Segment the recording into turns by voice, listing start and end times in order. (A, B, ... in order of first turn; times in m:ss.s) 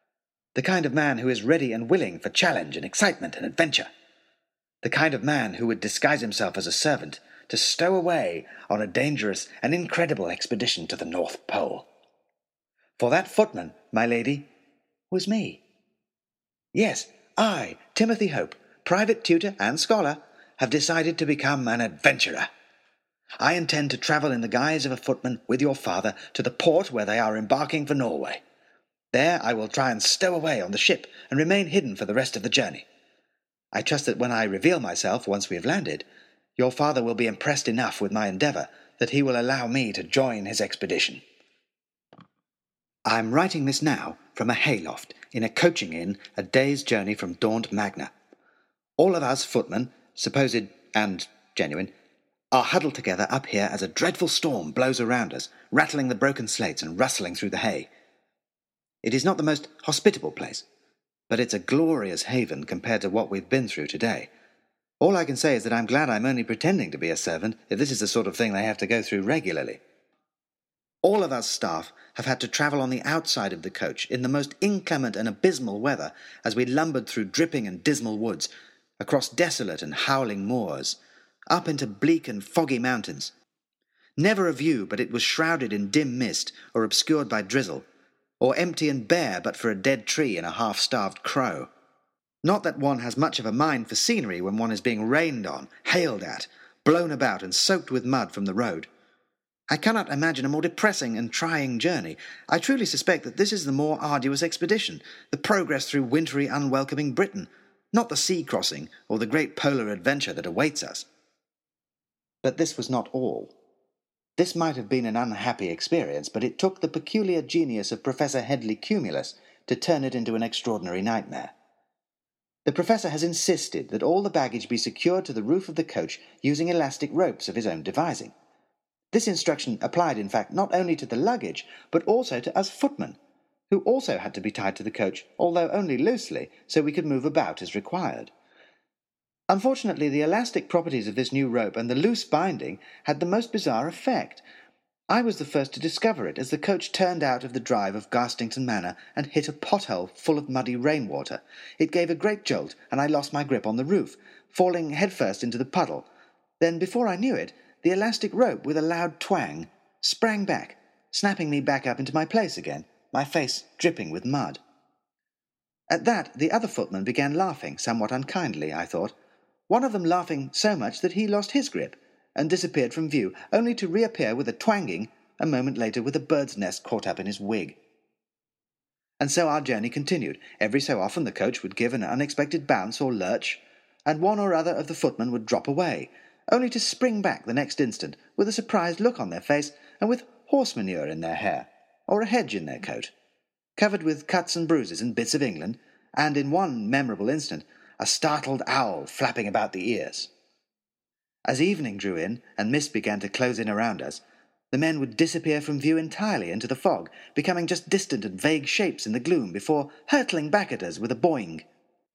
0:00.5-0:03.9 A
0:04.8-0:11.9 A
0:13.0-0:14.5 A
0:15.1-0:15.6 A
0:16.7-0:22.5 A
0:23.4-0:28.4 A
0:29.1-0:32.8 A
0:33.7-0:36.0 A
0:36.6-0:41.2 A
0:43.0-0:48.1 A
0:49.0-0:51.9 A
0:52.5-0:57.9 A
0:59.0-1:00.6 A
1:01.3-1:04.3 A
1:05.0-1:09.8 A
1:11.0-1:21.0 A
1:21.5-1:23.3 A
1:24.2-1:27.8 A
1:28.4-1:31.7 A
1:32.4-1:38.9 A
1:39.7-1:51.0 A
1:52.4-1:53.5 A
1:54.4-2:01.5 A
2:02.6-2:08.3 A
2:09.1-2:13.2 A
2:13.7-2:18.3 A
2:19.5-2:24.4 A
2:25.1-2:36.1 A
2:36.6-2:44.6 A
2:45.9-2:49.1 A
2:49.7-2:57.8 A
2:59.2-3:13.1 A
3:13.8-3:20.3 A
3:21.4-3:31.6 A